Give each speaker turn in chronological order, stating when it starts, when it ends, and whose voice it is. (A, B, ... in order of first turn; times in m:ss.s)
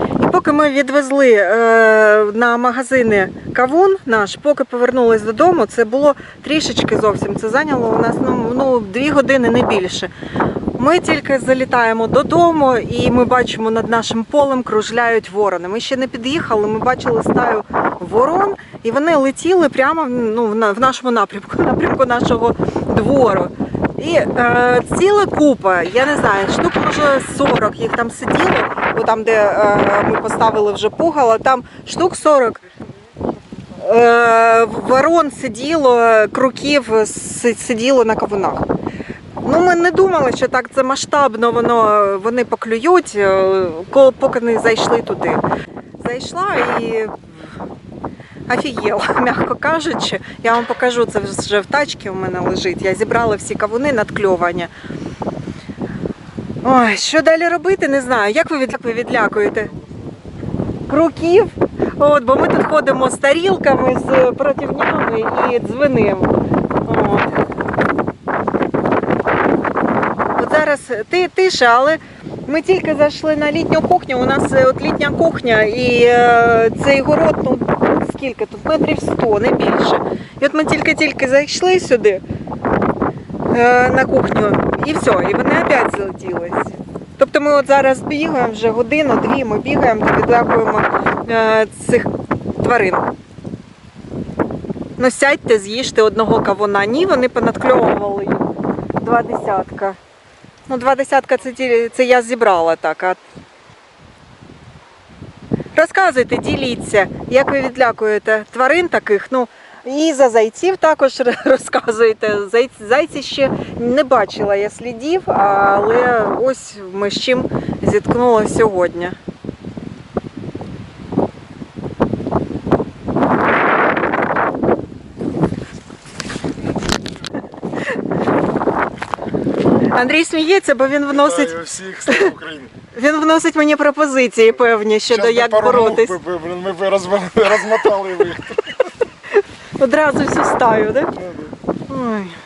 0:00.2-0:10.1 A
0:10.8-0:32.6 A
0:33.7-0:38.6 A
0:39.4-0:45.4 A
0:46.0-0:47.6 A
0:48.5-0:54.7 A
0:56.6-0:59.7 A
1:00.9-1:07.4 A
1:10.4-1:22.2 A
1:23.5-1:33.1 A
1:35.0-1:40.0 A
1:40.7-1:43.2 A
1:45.8-1:59.2 A
2:09.8-2:11.6 A
2:11.1-2:12.7 B
2:12.1-2:12.3 A
2:12.9-2:16.2 A
2:15.1-2:18.8 B
2:19.8-2:21.1 A
2:21.2-2:21.5 B
2:21.9-2:22.4 A